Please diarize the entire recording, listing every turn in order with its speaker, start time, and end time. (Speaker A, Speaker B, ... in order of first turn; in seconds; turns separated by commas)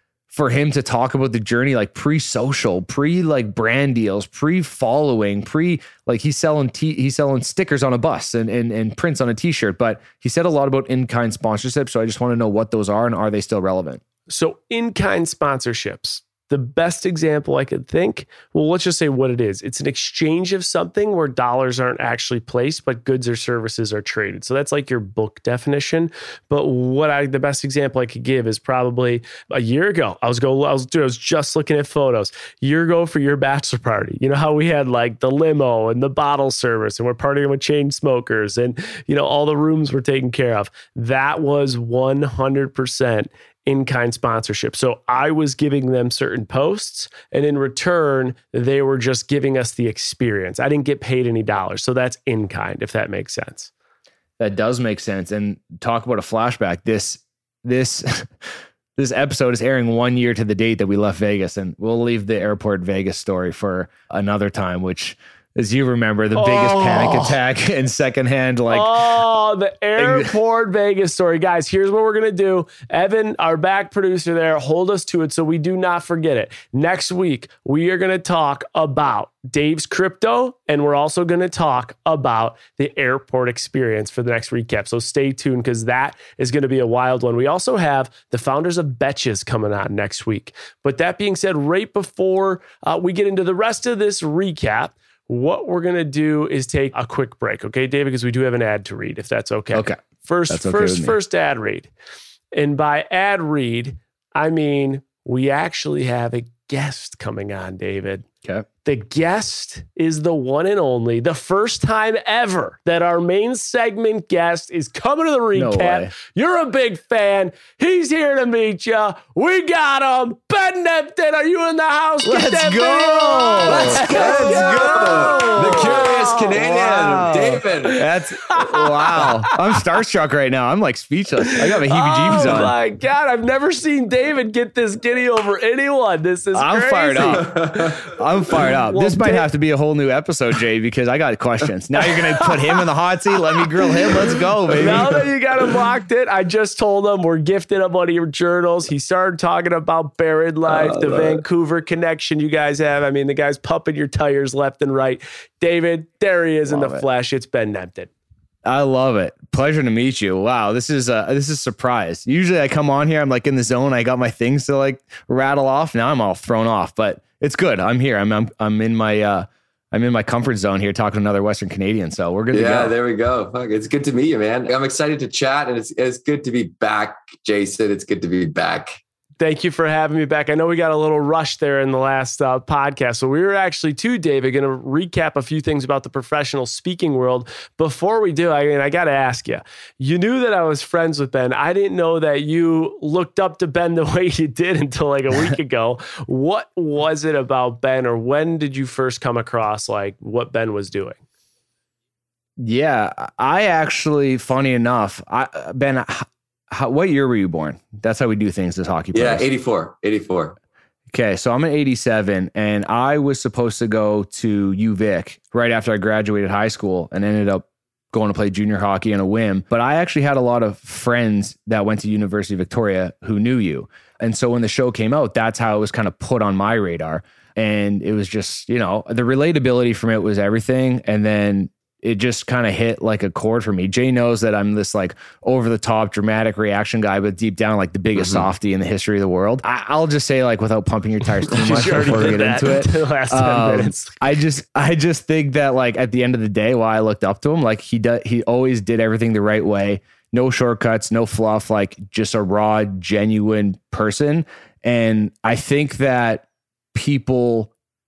Speaker A: 0.3-14.0, Speaker B: 14.3-53.7, Speaker A: 54.4-58.3, Speaker A: 59.0-69.0, Speaker B: 66.3-67.4, Speaker B: 68.7-101.9, Speaker A: 70.0-70.3, Speaker A: 100.5-101.2, Speaker B: 102.5-108.2, Speaker B: 108.8-126.6, Speaker A: 115.5-116.1, Speaker A: 122.2-132.7, Speaker C: 123.7-128.0, Speaker B: 127.7-129.6, Speaker B: 131.5-139.5, Speaker A: 136.5-145.3, Speaker C: 137.4-137.9, Speaker B: 142.0-142.8, Speaker B: 143.5-158.1, Speaker C: 150.7-151.4, Speaker A: 156.7-157.1, Speaker A: 158.7-172.9, Speaker C: 172.5-179.0, Speaker B: 179.4-201.2, Speaker A: 202.6-209.4, Speaker C: 209.1-210.6, Speaker A: 211.1-257.7, Speaker C: 238.2-238.5, Speaker B: 241.6-244.3